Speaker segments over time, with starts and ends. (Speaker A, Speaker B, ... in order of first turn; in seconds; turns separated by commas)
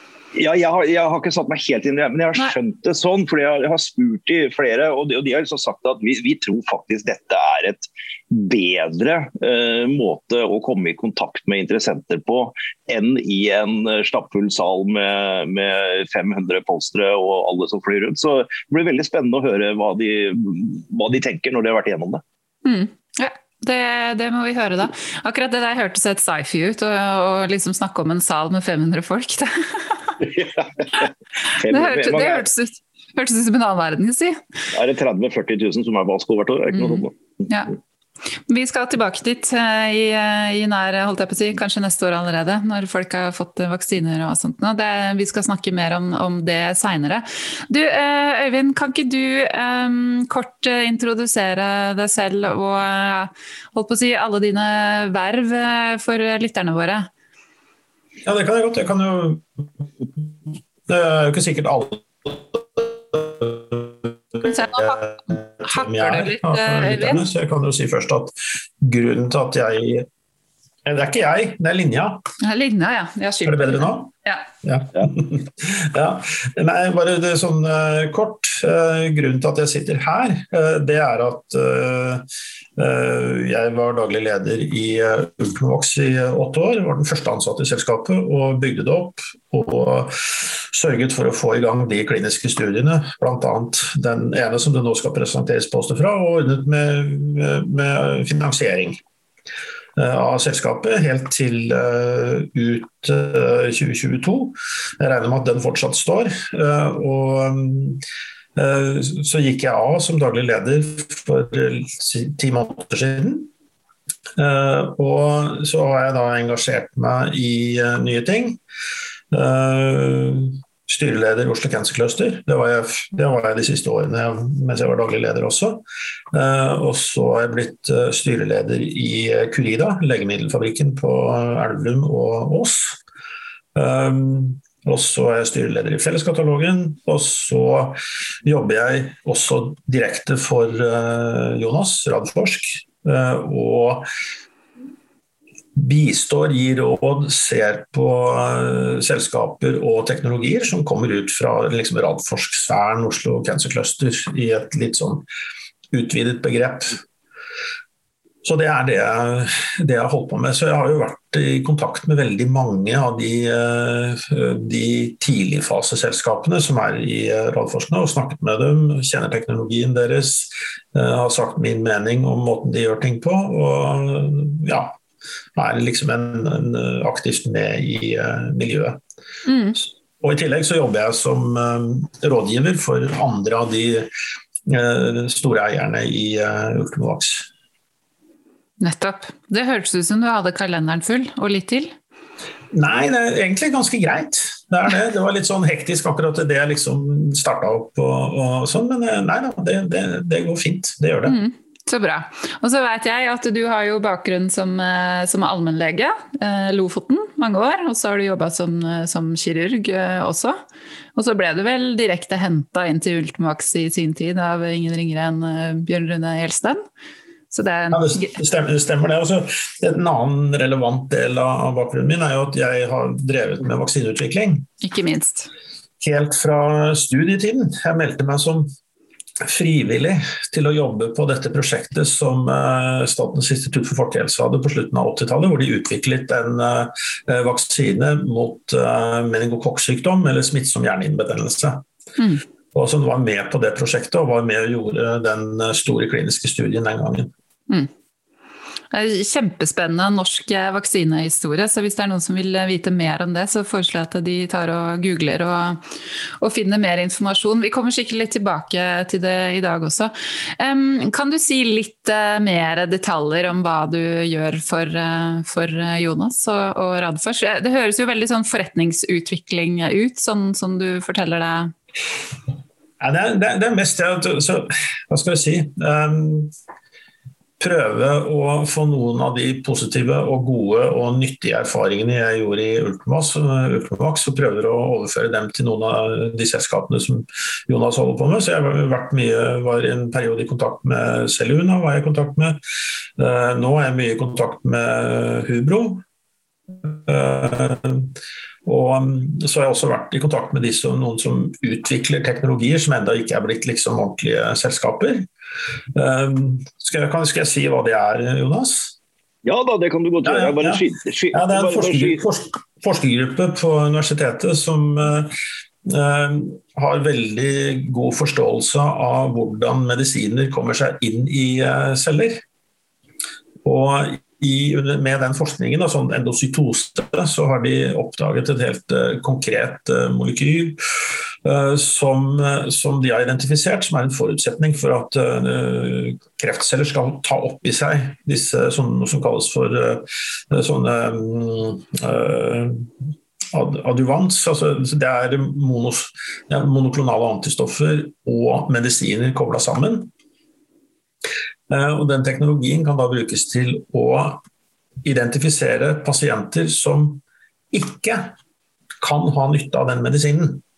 Speaker A: 0.3-22.2, Speaker B: 22.6-30.2, Speaker A: 30.2-32.5, Speaker B: 31.5-34.4, Speaker A: 34.7-37.1, Speaker B: 36.7-37.7, Speaker B: 38.5-57.1, Speaker C: 58.2-60.3, Speaker C: 60.9-70.1, Speaker B: 64.4-67.2, Speaker C: 70.8-72.2, Speaker B: 72.4-74.5, Speaker C: 73.5-74.1, Speaker C: 74.6-99.0, Speaker C: 100.0-108.0, Speaker C: 108.5-113.5, Speaker C: 114.4-118.6, Speaker C: 119.3-133.0, Speaker C: 133.8-144.1, Speaker C: 145.8-155.2, Speaker C: 155.9-157.0, Speaker C: 158.4-175.0, Speaker C: 175.6-179.0, Speaker B: 179.5-179.8, Speaker C: 180.2-184.1, Speaker C: 184.7-187.5, Speaker B: 188.8-191.9, Speaker C: 192.7-201.4, Speaker B: 201.2-210.6, Speaker B: 211.2-216.8, Speaker B: 217.5-218.3, Speaker C: 217.9-224.7, Speaker B: 224.8-225.5, Speaker C: 226.0-228.7, Speaker C: 229.4-241.8, Speaker B: 242.2-242.4, Speaker C: 242.7-247.3, Speaker B: 248.9-255.8, Speaker B: 256.4-271.7, Speaker C: 273.0-276.5, Speaker C: 277.6-292.6, Speaker C: 293.2-296.0, Speaker C: 296.7-298.1, Speaker C: 298.6-305.3, Speaker C: 305.9-309.0, Speaker A: 309.4-312.2, Speaker C: 310.2-315.3, Speaker C: 315.9-322.4, Speaker C: 323.6-342.9, Speaker C: 343.5-350.1, Speaker C: 351.7-354.4, Speaker C: 355.0-358.4, Speaker C: 359.0-360.6